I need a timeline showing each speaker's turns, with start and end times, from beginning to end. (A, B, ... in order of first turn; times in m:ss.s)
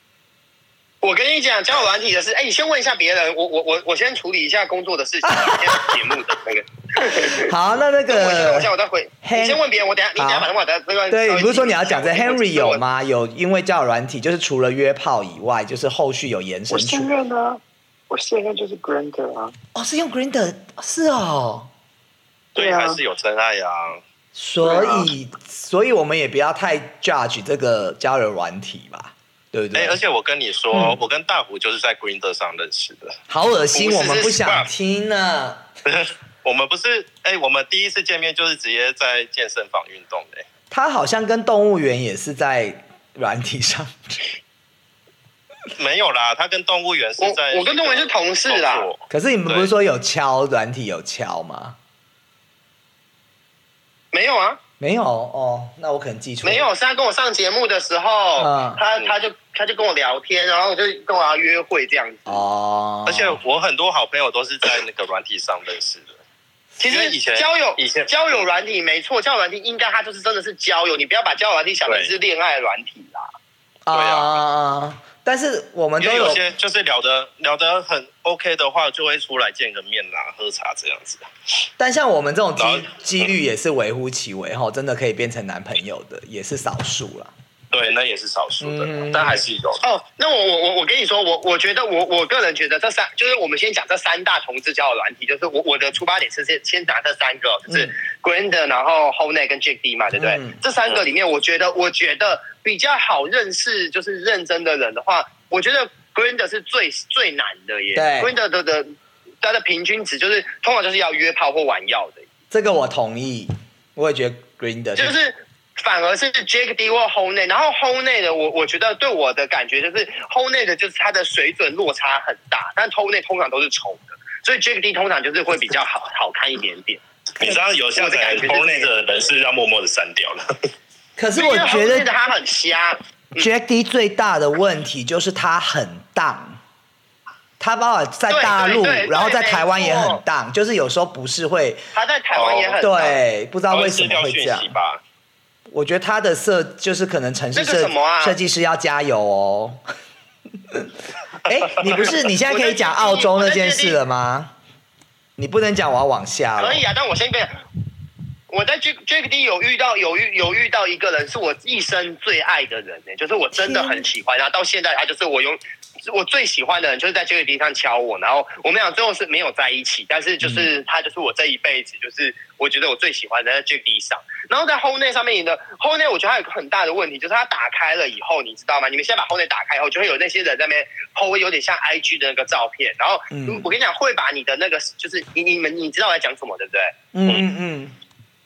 0:01.0-0:07.5 A
0:05.3-0:05.8 B
0:07.3-0:08.7 B
0:08.1-0:12.8 A
0:09.2-0:09.6 B
0:10.2-0:10.5 B
0:11.1-0:17.1 B
0:16.7-0:19.5 C
0:19.7-0:21.7 B
0:22.5-0:24.0 D
0:22.6-0:23.0 C
0:24.3-0:30.0 B
0:24.6-0:25.0 C
0:29.7-0:33.2 D
0:30.7-0:31.0 B
0:33.3-0:35.6 B
0:33.7-0:34.6 A
0:35.9-0:40.4 D
0:40.7-0:44.3 B
0:45.7-0:49.7 D
0:47.2-0:48.9 A
0:49.1-0:51.8 B
0:54.1-0:54.6 A
0:54.8-0:56.7 B
0:56.4-1:02.4 A
0:58.4-0:58.8 B
1:02.2-1:03.4 B
1:03.0-1:06.2 D
1:06.8-1:13.3 A
1:06.8-1:08.4 D
1:11.8-1:12.1 D
1:13.8-1:16.4 B
1:13.9-1:14.4 D
1:16.0-1:21.2 D
1:21.8-1:27.3 B
1:22.6-1:23.3 D
1:27.7-1:29.8 D
1:28.6-1:29.4 B
1:29.8-1:48.9 A
1:40.2-1:40.6 B
1:47.9-1:48.3 B
1:49.4-1:52.2 A
1:52.5-1:55.2 B
1:55.0-2:07.0 A
2:07.4-2:10.4 D
2:07.9-2:08.9 A
2:11.2-2:12.1 B
2:11.3-2:13.5 A
2:13.4-2:16.6 B
2:17.6-2:21.8 B
2:18.3-2:20.2 A
2:21.9-2:23.2 A
2:22.3-2:22.8 D
2:22.8-2:24.7 B
2:23.7-2:25.0 D
2:25.7-2:29.8 B
2:27.5-2:28.4 A
2:31.4-2:34.5 B
2:32.4-2:34.0 A
2:35.4-2:36.8 B
2:36.6-2:37.5 A
2:38.5-3:06.9 A
2:43.5-2:44.1 B
2:50.4-2:50.7 B
3:03.3-3:03.7 B
3:07.1-3:07.9 B